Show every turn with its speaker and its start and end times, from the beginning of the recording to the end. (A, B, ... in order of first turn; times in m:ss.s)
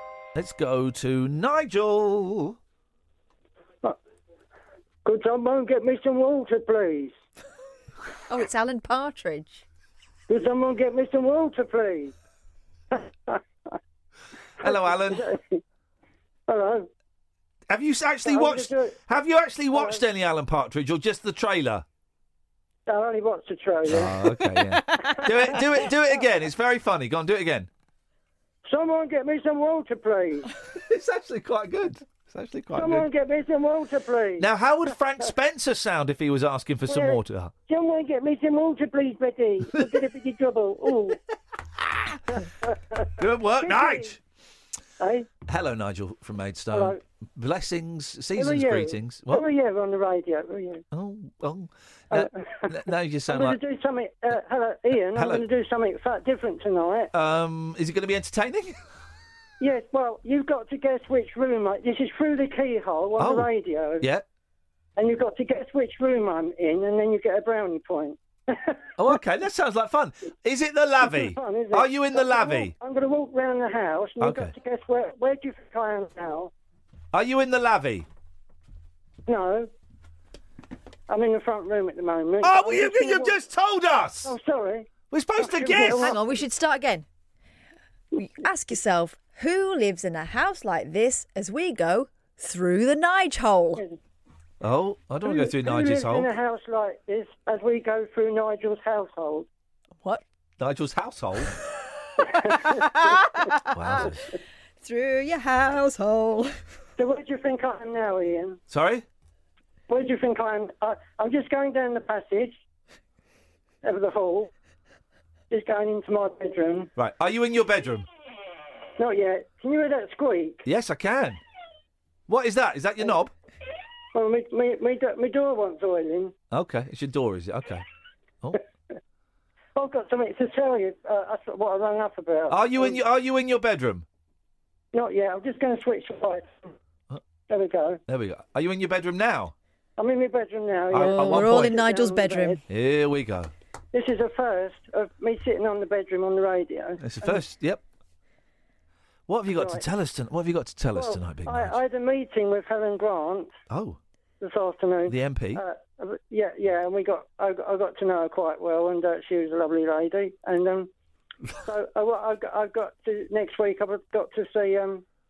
0:00.3-0:02.6 A
0:05.0-0:07.1 B
0:08.3-0:09.6 C
0:10.3-0:12.1 B
0:12.9-0:13.7 B
0:14.6-0:15.3 A
0:14.6-0:15.6 B
0:16.5-0:16.9 B
0:17.7-0:21.8 A
0:18.2-0:19.0 B
0:19.7-0:20.0 B
0:22.9-0:24.1 B
0:23.9-0:27.7 A
0:24.5-0:25.3 C
0:28.6-0:30.5 B
0:30.7-0:33.1 A
0:32.7-0:34.5 B
0:34.4-0:37.5 A
0:36.9-0:41.2 B
0:39.7-0:40.0 A
0:42.3-0:44.1 B
0:43.2-0:44.2 A
0:45.0-0:45.3 B
0:45.5-0:49.4 A
0:46.7-0:47.0 B
0:48.4-0:50.8 B
0:50.9-0:53.6 A
0:52.1-0:52.7 B
0:53.3-0:57.1 B
0:55.1-0:55.4 A
0:57.1-0:58.8 A
0:59.6-1:04.1 B
1:03.2-1:04.2 A
1:05.0-1:08.8 B
1:09.0-1:12.7 A
1:11.0-1:16.5 B
1:14.2-1:14.5 A
1:17.1-1:18.1 A
1:19.3-1:19.7 B
1:21.1-1:23.4 B
1:22.4-1:24.3 A
1:24.2-1:26.2 B
1:25.1-1:26.2 A
1:26.0-1:27.0 C
1:28.1-1:33.8 C
1:34.6-1:36.3 A
1:35.2-1:39.5 B
1:40.6-1:41.6 A
1:42.2-1:42.8 B
1:42.5-1:44.1 C
1:43.7-1:44.2 A
1:44.8-1:46.5 C
1:47.0-1:48.6 B
1:48.7-1:49.0 A
1:49.9-1:52.6 B
1:53.8-1:54.5 B
1:55.5-1:56.9 B
1:57.0-1:58.1 A
1:59.0-2:00.6 B
2:00.6-2:01.4 A
2:02.3-2:03.3 A
2:04.1-2:06.3 B
2:06.5-2:07.8 A
2:09.7-2:13.0 B
2:12.5-2:14.0 A
2:14.9-2:16.5 B
2:17.5-2:18.0 B
2:18.1-2:19.5 A
2:20.0-2:22.6 B
2:20.9-2:21.8 A
2:21.0-2:22.6 C
2:22.7-2:23.5 A
2:23.9-2:27.4 B
2:27.0-2:27.8 A
2:29.3-2:31.8 A
2:29.5-2:29.8 B
2:30.9-2:33.5 B
2:33.7-2:34.0 A
2:34.4-2:40.9 B
2:35.1-2:35.6 A
2:41.6-2:45.0 B